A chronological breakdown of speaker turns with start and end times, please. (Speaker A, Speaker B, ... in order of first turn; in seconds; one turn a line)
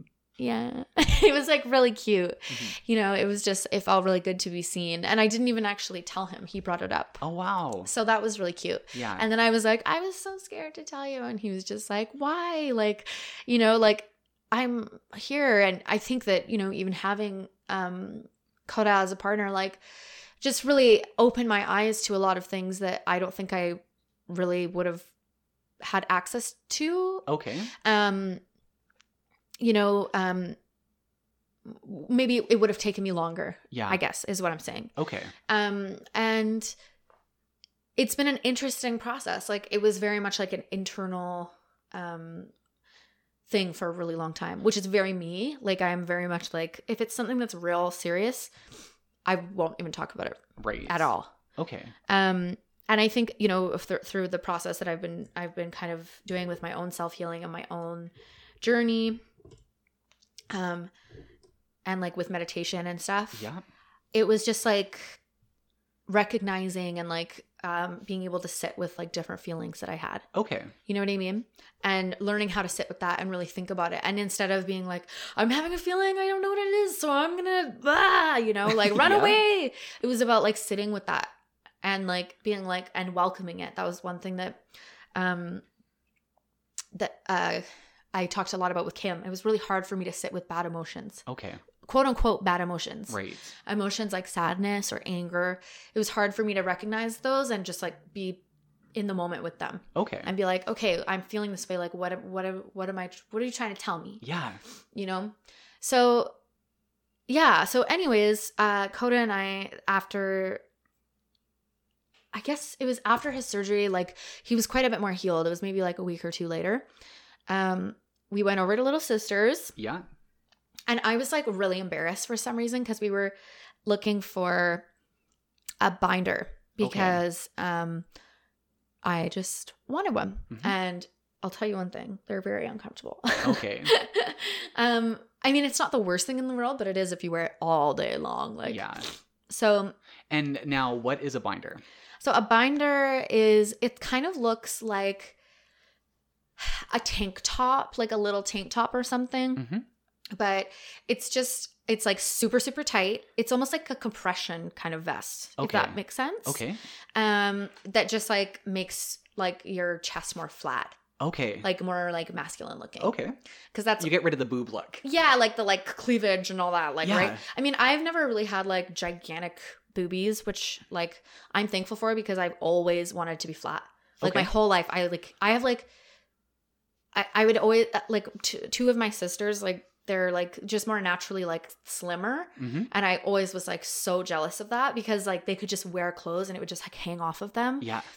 Speaker A: 0.4-7.2
Speaker B: 2.5-2.8
Speaker B: 7.2-7.9
Speaker A: 7.8-19.8
Speaker B: 8.9-9.2
Speaker A: 20.4-25.1
Speaker A: 25.8-27.3
Speaker B: 27.3-27.7
Speaker A: 27.8-28.4
Speaker A: 29.6-30.6
Speaker A: 31.7-34.9
Speaker B: 33.7-34.0
Speaker B: 35.0-35.3
Speaker A: 35.5-36.7
Speaker A: 38.0-42.5
Speaker A: 43.5-48.5
Speaker A: 49.2-51.3
Speaker B: 50.6-51.0
Speaker B: 51.6-51.9
Speaker A: 52.1-59.2
Speaker A: 60.5-60.9
Speaker A: 61.9-63.5
Speaker B: 63.3-63.6
Speaker A: 64.1-65.2
Speaker A: 66.1-70.3
Speaker B: 70.3-70.7
Speaker A: 70.9-81.3
Speaker B: 78.7-79.4
Speaker A: 81.8-84.6
Speaker A: 85.2-85.6
Speaker A: 87.0-91.2
Speaker B: 91.3-91.6
Speaker A: 91.8-98.4
Speaker B: 93.1-93.5
Speaker A: 99.0-104.2
Speaker B: 100.0-100.3
Speaker B: 104.2-104.6
Speaker A: 104.9-106.3
Speaker A: 107.3-110.6
Speaker A: 112.3-116.9
Speaker A: 117.5-119.8
Speaker B: 119.8-120.1
Speaker A: 120.9-123.3
Speaker A: 123.9-124.8
Speaker A: 125.8-128.1
Speaker B: 126.8-127.2
Speaker A: 129.0-138.9
Speaker B: 133.4-133.9
Speaker B: 138.7-139.1
Speaker A: 139.5-139.9
Speaker B: 140.3-141.8
Speaker A: 142.2-145.4
Speaker A: 146.6-149.7
Speaker B: 149.6-149.8
Speaker A: 150.3-156.6
Speaker B: 155.6-156.8
Speaker A: 157.2-161.0
Speaker B: 161.2-161.7
Speaker A: 161.6-163.2
Speaker B: 163.0-163.4
Speaker A: 163.7-164.1
Speaker B: 164.0-165.0
Speaker A: 165.0-175.9
Speaker B: 167.0-167.4
Speaker B: 174.2-174.5
Speaker A: 177.1-187.9
Speaker B: 182.6-182.9
Speaker B: 187.8-188.1